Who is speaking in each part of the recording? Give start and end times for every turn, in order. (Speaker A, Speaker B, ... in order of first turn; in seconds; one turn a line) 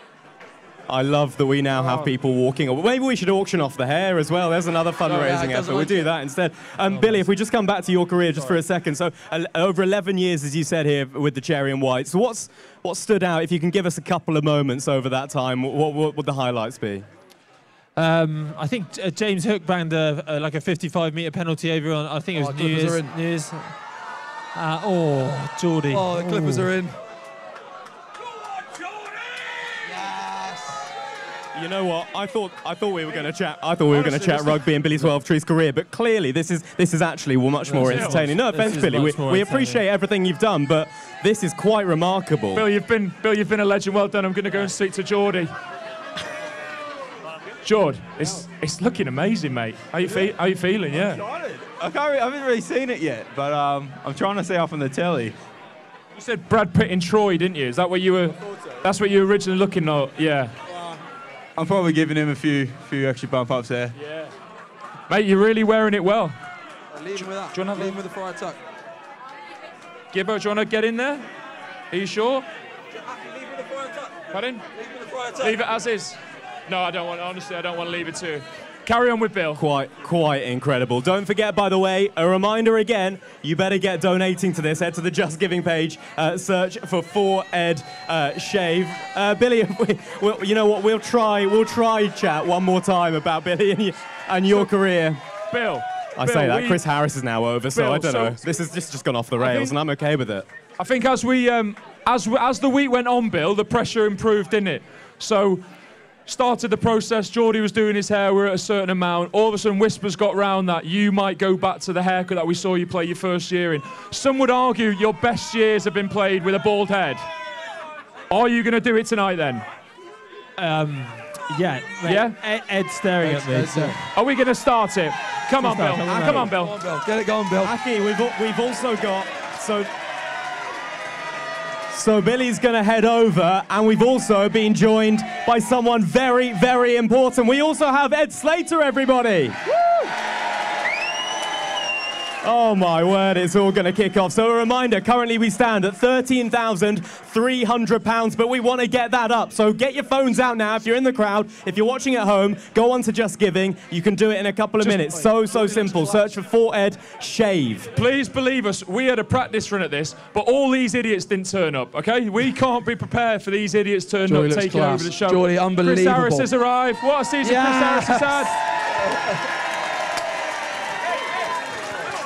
Speaker A: 0.9-17.1
Speaker B: 1.8-2.1
Speaker B: 5.0-6.1
Speaker C: 6.9-7.2
Speaker C: 17.9-23.8
Speaker B: 22.3-23.1
Speaker C: 24.5-26.7
Speaker B: 25.9-27.0
Speaker B: 29.8-30.9
Speaker A: 31.5-42.6
Speaker D: 33.9-34.6
Speaker C: 37.6-39.8
Speaker D: 37.8-38.2
Speaker D: 42.5-45.5
Speaker D: 47.6-51.2
Speaker E: 51.4-55.4
Speaker D: 56.1-60.5
Speaker B: 60.7-61.0
Speaker E: 61.5-63.9
Speaker D: 65.1-66.3
Speaker B: 66.9-68.6
Speaker D: 67.2-68.0
Speaker D: 70.1-71.2
Speaker D: 71.9-72.5
Speaker B: 72.9-75.6
Speaker D: 74.3-74.6
Speaker D: 75.4-79.6
Speaker A: 79.5-95.2
Speaker D: 95.5-96.8
Speaker A: 96.2-100.5
Speaker D: 97.7-98.4
Speaker D: 99.4-99.8
Speaker D: 100.8-105.6
Speaker D: 106.3-117.2
Speaker D: 118.3-119.6
Speaker C: 120.6-124.0
Speaker D: 122.0-122.4
Speaker B: 123.2-124.0
Speaker D: 124.1-126.7
Speaker C: 125.6-126.5
Speaker B: 126.0-127.7
Speaker A: 127.6-129.9
Speaker A: 131.9-139.6
Speaker A: 142.4-157.9
Speaker B: 154.8-156.3
Speaker D: 157.9-168.6
Speaker B: 164.3-166.5
Speaker B: 167.4-168.4